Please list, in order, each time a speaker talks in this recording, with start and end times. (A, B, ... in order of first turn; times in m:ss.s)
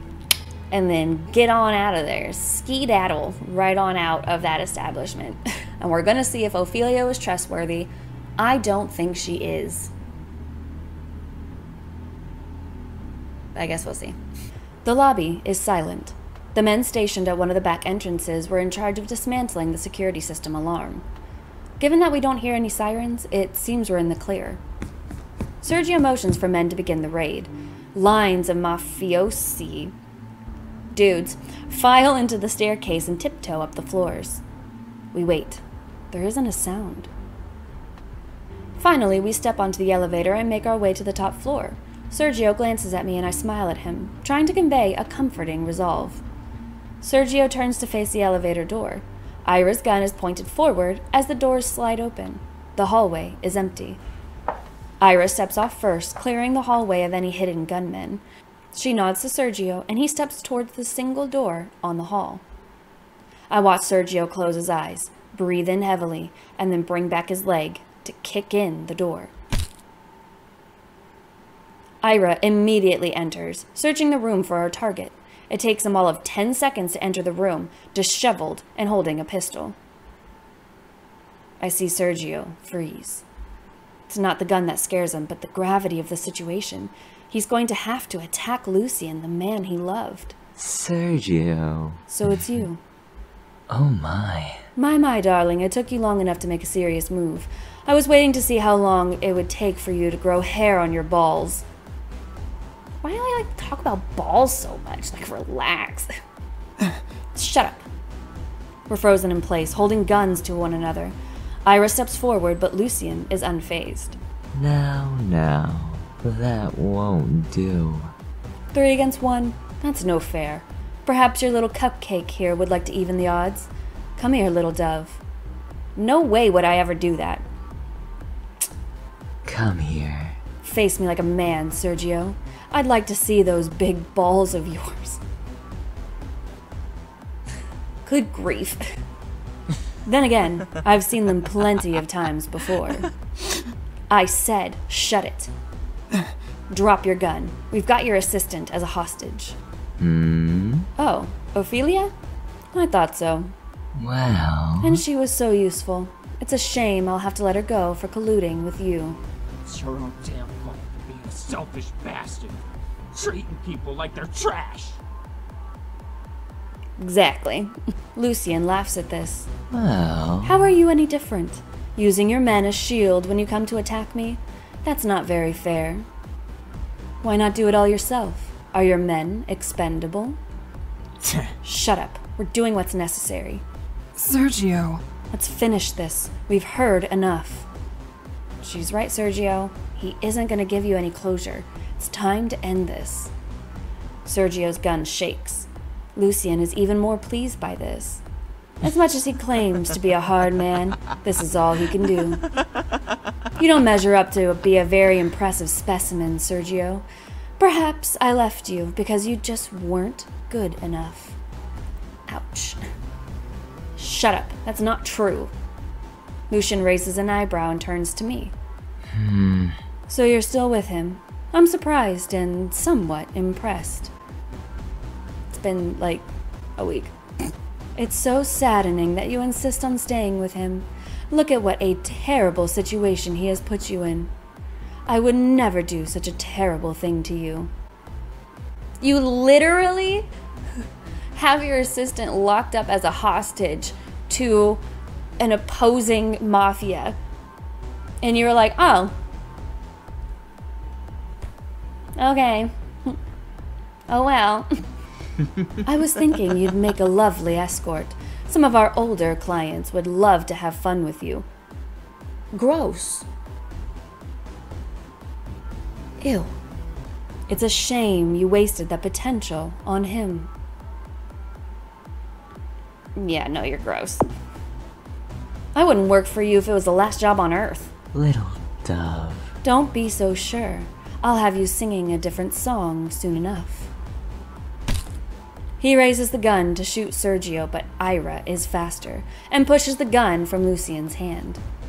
0:00.7-0:09.9 A
0:13.5-0:14.2 A
0:14.8-0:21.0 A
0:21.8-0:24.6 A
0:25.6-0:29.9 A
0:30.9-0:34.4 A
0:35.1-0:37.1 A
0:38.8-0:46.2 A
0:47.0-0:54.0 A
0:55.0-0:58.2 A
0:58.7-1:02.4 A
1:03.5-1:09.3 A
1:12.0-1:19.8 A
1:21.6-1:23.2 A
1:24.1-1:30.3 A
1:30.6-1:32.6 B
1:32.1-1:32.8 A
1:33.7-1:34.6 B
1:34.8-1:41.6 A
1:43.0-1:46.1 A
1:47.3-1:47.8 A
1:48.9-1:51.1 A
1:51.6-1:54.2 A
1:54.5-1:58.1 B
1:58.7-2:05.2 A
2:06.0-2:07.4 A
2:09.4-2:10.4 B
2:10.6-2:15.2 A
2:18.0-2:18.8 A
2:20.0-2:23.1 A
2:24.1-2:25.5 A
2:26.7-2:29.6 A
2:30.0-2:30.9 B
2:31.0-2:32.1 A
2:32.7-2:33.5 A
2:33.9-2:35.0 B
2:34.8-2:39.2 A
2:39.6-2:42.6 C
2:43.1-2:45.0 C
2:47.0-2:49.5 A
2:49.7-2:50.6 B
2:50.4-2:56.0 A
2:57.2-3:00.4 A
3:01.2-3:01.5 C
3:01.6-3:03.6 A
3:04.2-3:05.0 C
3:05.3-3:07.7 A
3:08.6-3:13.3 A
3:14.2-3:18.2 A
3:18.8-3:22.5 A
3:23.6-3:27.0 A
3:27.6-3:31.4 A
3:32.3-3:32.8 A
3:34.0-3:35.5 A
3:36.5-3:38.5 A
3:39.1-3:39.8 B
3:40.1-3:44.1 A
3:45.5-3:46.2 A
3:46.8-3:47.1 A
3:48.0-3:54.3 A
3:55.1-3:57.7 A
3:59.0-4:00.3 A
4:01.3-4:04.8 A
4:05.4-4:07.2 A
4:08.2-4:09.1 A
4:12.2-4:13.2 A
4:14.1-4:14.7 A
4:15.8-4:21.4 A
4:22.5-4:23.3 A
4:26.2-4:26.6 A
4:27.5-4:30.5 A
4:33.2-4:34.2 A
4:35.7-4:37.9 A
4:38.1-4:39.5 B
4:39.6-4:43.9 A
4:45.8-4:51.6 A